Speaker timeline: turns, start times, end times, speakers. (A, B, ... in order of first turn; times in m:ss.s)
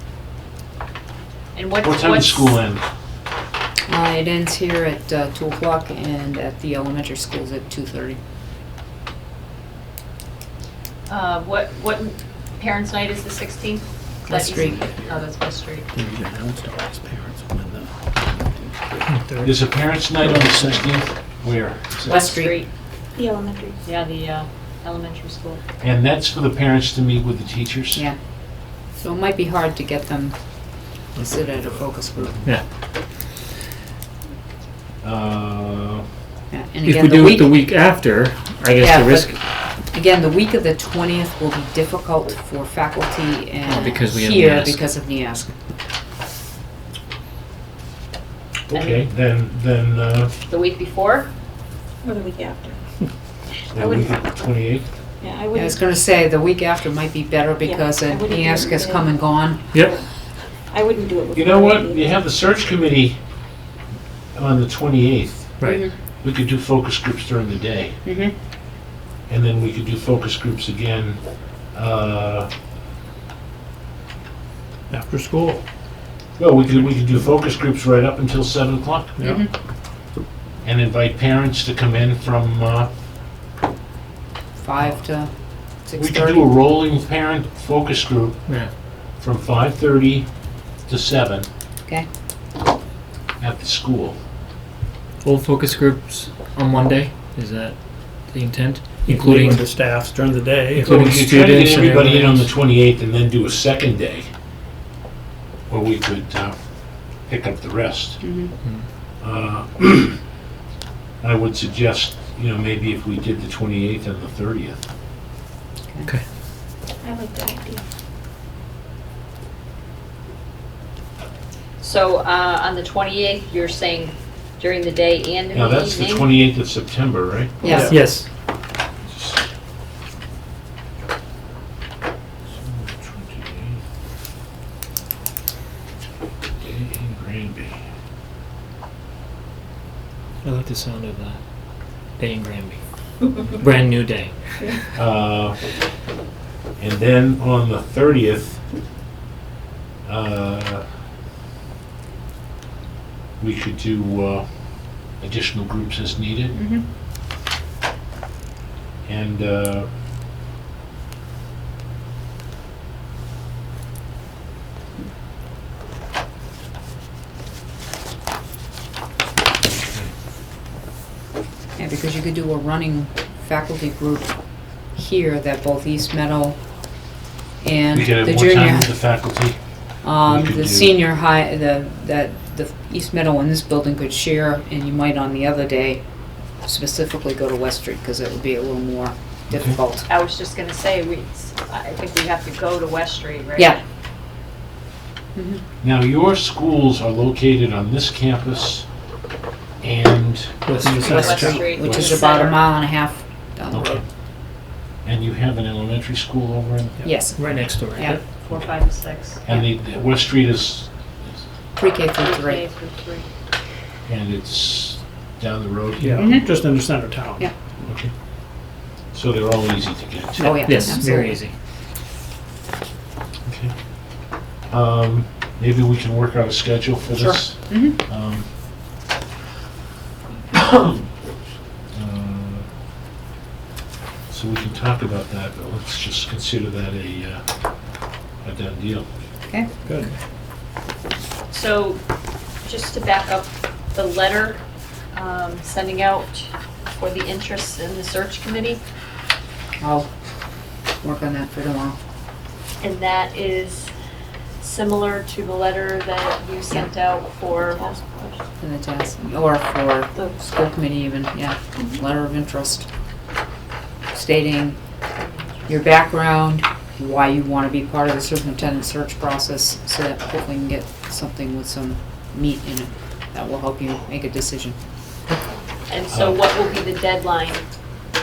0:01.6-0:02.6 A
0:01.8-0:02.8 B
0:03.9-0:08.2 C
0:11.1-0:15.9 A
0:14.3-0:14.8 C
0:15.9-0:19.5 D
0:19.4-0:22.2 B
0:22.1-0:22.6 C
0:22.1-0:22.7 A
0:23.2-0:23.8 E
0:23.8-0:25.6 A
0:25.8-0:28.1 B
0:27.9-0:30.5 C
0:31.2-0:32.4 C
0:31.3-0:32.4 B
0:35.0-0:36.0 B
0:36.5-0:37.5 C
0:36.8-0:39.4 F
0:38.8-0:45.5 C
0:43.7-0:44.9 F
0:48.7-0:50.3 B
0:48.7-0:49.0 A
0:50.5-0:51.3 A
0:52.1-0:52.8 E
0:53.7-0:54.9 B
0:55.2-0:55.8 E
0:55.5-0:59.8 C
0:57.6-0:59.1 E
0:59.7-1:00.0 F
1:00.7-1:02.1 E
1:01.3-1:03.2 B
1:04.4-1:05.6 B
1:05.6-1:05.9 C
1:06.2-1:08.0 B
1:08.0-1:08.3 C
1:09.3-1:12.5 B
1:14.9-1:15.6 D
1:16.4-1:19.2 B
1:19.2-1:19.4 D
1:19.2-1:19.5 C
1:20.6-1:22.9 B
1:24.6-1:26.5 C
1:26.0-1:30.3 B
1:28.5-1:28.7 F
1:30.8-1:31.5 B
1:33.4-1:34.2 B
1:35.2-1:39.7 F
1:39.1-1:40.9 D
1:40.7-1:42.5 F
1:40.8-1:44.3 B
1:45.7-1:46.6 B
1:47.3-1:48.2 B
1:48.2-1:48.5 C
1:49.2-1:50.2 B
1:51.2-1:54.8 B
1:57.0-1:57.8 E
2:01.8-2:06.4 A
2:05.5-2:07.9 B
2:07.6-2:08.0 C
2:07.7-2:08.1 D
2:07.8-2:08.3 F
2:09.1-2:09.4 B
2:12.4-2:13.8 B
2:16.6-2:17.8 B
2:20.4-2:21.4 F
2:22.2-2:24.8 F
2:25.0-2:25.7 B
2:26.8-2:28.6 B
2:30.0-2:30.9 B
2:33.4-2:34.5 B
2:35.2-2:36.6 B
2:36.6-2:36.8 C
2:39.0-2:39.9 B
2:49.6-2:50.1 B
2:51.8-2:54.4 C
2:54.9-2:56.6 C
2:57.6-2:59.0 C
2:57.9-2:59.6 B
3:00.0-3:06.0 C
3:00.2-3:01.0 B
3:06.6-3:10.1 C
3:09.5-3:09.8 B
3:10.1-3:13.8 A
3:15.4-3:15.6 C
3:15.8-3:18.9 B
3:19.8-3:21.2 B
3:20.7-3:21.7 D
3:20.8-3:24.0 C
3:21.0-3:22.6 A
3:21.8-3:22.2 B
3:23.7-3:24.0 B
3:25.0-3:27.7 B
3:27.0-3:27.4 C
3:27.4-3:28.3 F
3:28.0-3:29.4 A
3:29.4-3:31.4 B
3:31.8-3:32.6 C
3:32.2-3:33.3 A
3:34.1-3:36.5 B
3:36.0-3:37.5 D
3:36.2-3:36.6 C
3:37.8-3:38.1 B
3:39.1-3:40.9 B
3:40.4-3:41.4 C
3:40.6-3:41.5 F
3:43.5-3:43.7 B
3:44.7-3:48.5 B
3:47.2-3:48.0 C
3:50.5-3:51.1 B
3:52.0-3:52.7 B
3:54.3-3:57.4 B
3:58.4-3:59.1 B
4:01.5-4:02.0 A
4:02.6-4:04.6 A
4:05.1-4:08.8 A
4:09.8-4:10.1 C
4:11.0-4:12.0 C
4:12.8-4:13.9 A
4:14.6-4:18.0 A
4:17.5-4:18.3 E
4:18.6-4:22.9 C
4:24.1-4:24.8 C
4:25.7-4:34.8 C
4:35.9-4:37.6 A
4:36.1-4:36.4 B